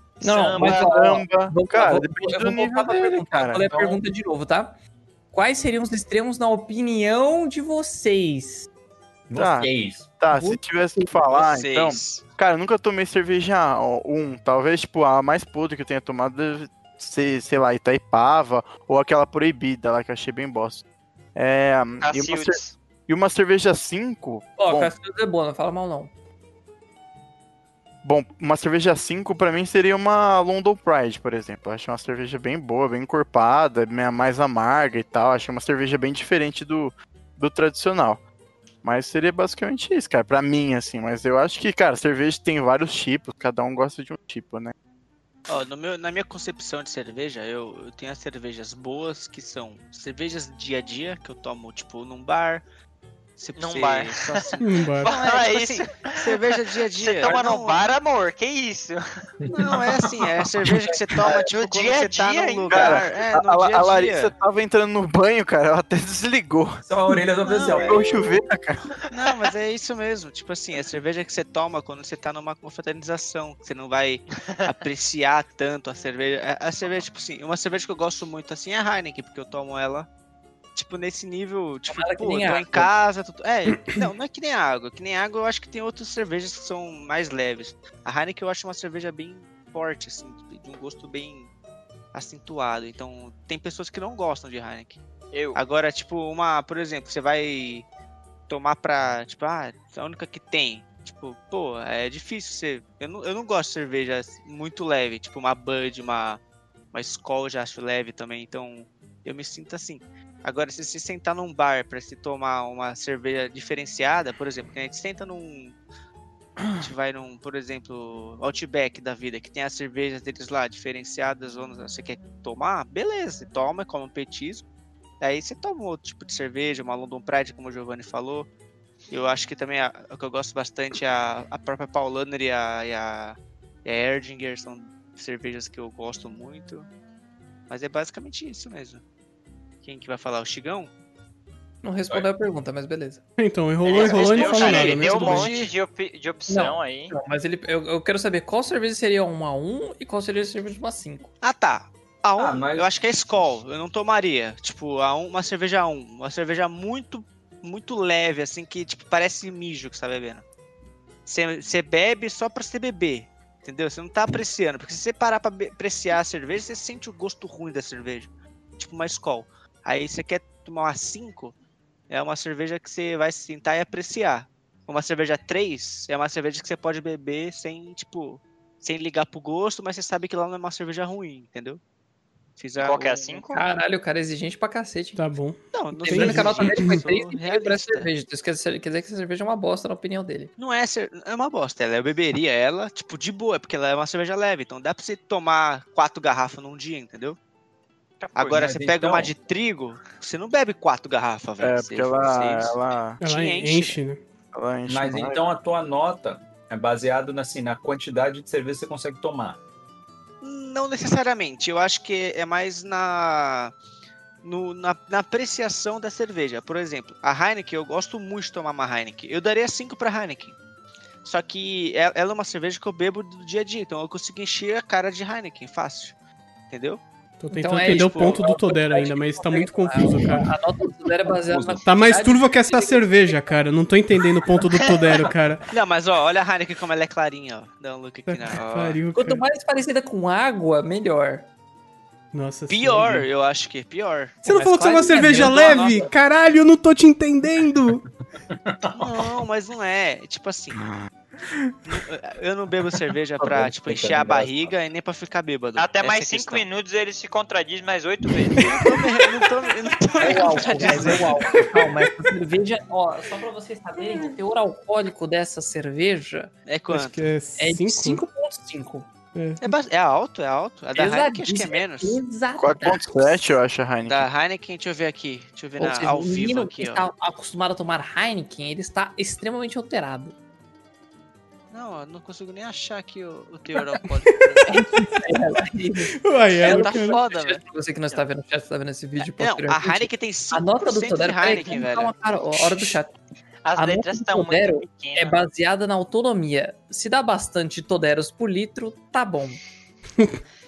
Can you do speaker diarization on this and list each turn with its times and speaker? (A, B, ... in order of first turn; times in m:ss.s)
0:00.2-0:00.9 A
0:00.2-0:04.8 B
0:00.6-0:03.9 C
0:05.3-0:08.7 B
0:09.3-0:10.2 D
0:09.4-0:20.8 C
0:10.3-0:11.1 B
0:11.2-0:12.2 E
0:21.4-0:24.9 C
0:22.0-0:22.8 A
0:24.6-0:26.1 B
0:28.0-0:38.2 C
0:38.8-0:44.7 C
0:45.5-0:52.6 E
0:53.4-0:58.0 E
0:53.6-0:56.4 A
0:54.6-0:55.1 F
0:57.0-0:59.2 A
0:59.4-1:00.1 D
0:59.5-1:04.3 E
1:01.4-1:03.0 A
1:02.7-1:07.2 C
1:06.8-1:08.1 D
1:07.5-1:08.1 E
1:07.8-1:08.9 C
1:09.1-1:20.1 E
1:20.8-1:31.5 E
1:21.9-1:22.9 B
1:32.1-1:35.0 E
1:35.3-1:35.6 A
1:35.6-1:37.9 E
1:38.5-1:46.4 E
1:46.9-1:55.8 E
1:56.7-2:04.6 E
2:05.2-2:08.5 E
2:09.1-2:16.9 E
2:17.7-2:19.0 E
2:19.8-2:20.9 E
2:21.8-2:23.2 B
2:23.4-2:25.5 F
2:23.8-2:27.1 A
2:23.9-2:25.7 E
2:24.0-2:24.6 D
2:26.5-2:31.3 B
2:31.4-2:40.4 E
2:32.4-2:32.9 D
2:41.3-2:51.5 E
2:52.1-3:01.8 E
3:02.6-3:03.5 E
3:02.8-3:03.6 A
3:03.5-3:05.2 B
3:05.2-3:07.0 F
3:05.7-3:08.1 E
3:06.0-3:10.5 B
3:10.6-3:17.4 E
3:18.2-3:18.5 A
3:18.4-3:24.0 E
3:18.5-3:19.3 D
3:21.6-3:23.2 C
3:23.2-3:24.2 F
3:24.5-3:25.4 C
3:24.9-3:29.6 D
3:30.4-3:33.7 E
3:34.4-3:40.6 E
3:41.2-3:46.2 E
3:46.7-3:47.0 E
3:47.4-3:50.5 F
3:47.5-3:53.4 B
3:47.9-3:48.5 E
3:51.5-3:51.9 D
3:51.8-3:55.7 F
3:55.7-3:59.0 E
3:58.3-3:59.4 F
3:59.1-4:01.5 B
4:02.3-4:03.3 F
4:02.7-4:04.4 E
4:04.4-4:08.0 F
4:04.4-4:06.0 B
4:05.1-4:06.0 E
4:08.6-4:09.3 D
4:09.0-4:10.9 E
4:11.9-4:16.7 E
4:13.4-4:14.8 D
4:15.8-4:18.9 A
4:18.6-4:21.5 E
4:20.2-4:26.5 B
4:26.7-4:27.2 E
4:26.9-4:28.2 F
4:27.6-4:29.1 B
4:29.4-4:29.6 F
4:29.6-4:32.2 E
4:31.0-4:33.5 B
4:32.6-4:34.3 C
4:34.1-4:37.0 E
4:35.8-4:40.4 B
4:41.7-4:44.7 E
4:44.3-4:45.2 F
4:44.6-4:53.2 B
4:46.2-4:47.2 F
4:46.6-4:47.6 E
4:49.4-4:52.1 E
4:53.6-4:55.4 A
4:53.8-4:59.6 B